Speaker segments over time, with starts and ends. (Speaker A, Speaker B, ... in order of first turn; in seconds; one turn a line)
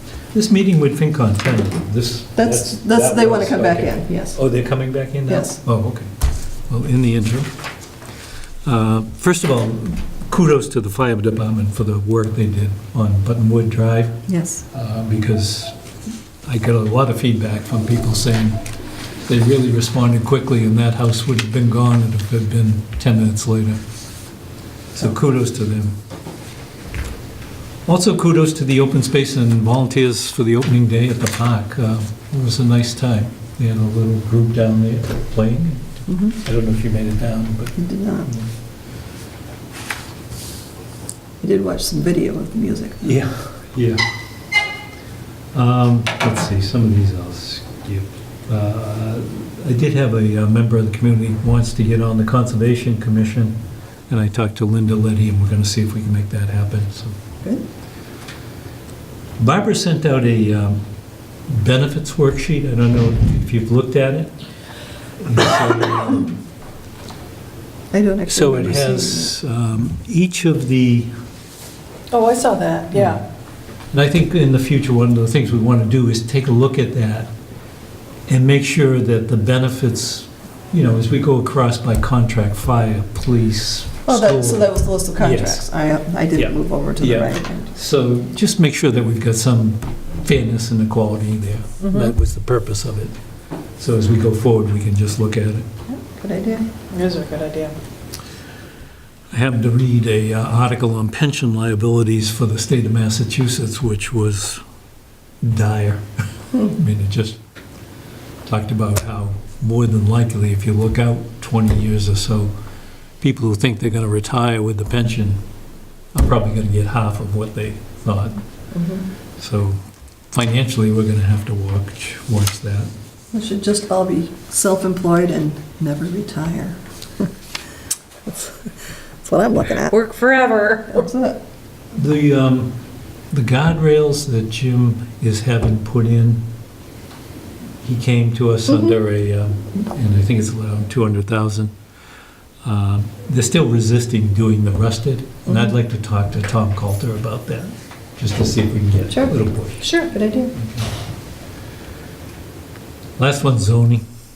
Speaker A: 0.3-6.1
Speaker B: 2.3-4.5
Speaker B: 5.3-5.6
Speaker A: 6.7-7.5
Speaker A: 8.6-15.7
Speaker B: 14.3-14.6
Speaker A: 16.4-18.6
Speaker A: 19.2-23.8
Speaker A: 24.9-25.9
Speaker A: 27.9-38.5
Speaker B: 36.1-36.4
Speaker B: 37.8-38.3
Speaker B: 41.4-43.2
Speaker A: 43.0-44.0
Speaker A: 45.5-57.2
Speaker A: 59.4-60.8
Speaker A: 61.5-64.3
Speaker A: 65.2-66.3
Speaker B: 67.9-69.3
Speaker A: 68.3-71.1
Speaker C: 72.1-73.2
Speaker A: 72.9-73.2
Speaker A: 73.9-77.3
Speaker A: 78.3-85.8
Speaker B: 84.0-87.7
Speaker A: 86.3-93.1
Speaker C: 91.8-92.1
Speaker A: 93.8-95.7
Speaker B: 95.9-96.7
Speaker C: 96.9-97.8
Speaker A: 99.3-104.6
Speaker A: 105.4-107.4
Speaker A: 108.4-112.5
Speaker A: 113.2-115.4
Speaker A: 116.1-118.4
Speaker B: 118.7-119.0
Speaker A: 119.4-122.9
Speaker B: 123.3-127.3
Speaker B: 128.3-128.7
Speaker B: 129.2-129.9
Speaker C: 129.6-131.0
Speaker B: 130.9-131.4
Speaker A: 131.9-132.8
Speaker A: 133.3-136.4
Speaker A: 137.8-141.7
Speaker A: 142.6-149.9
Speaker B: 145.4-145.7
Speaker C: 149.8-150.1
Speaker B: 150.0-150.5
Speaker A: 150.6-150.9
Speaker A: 153.2-154.0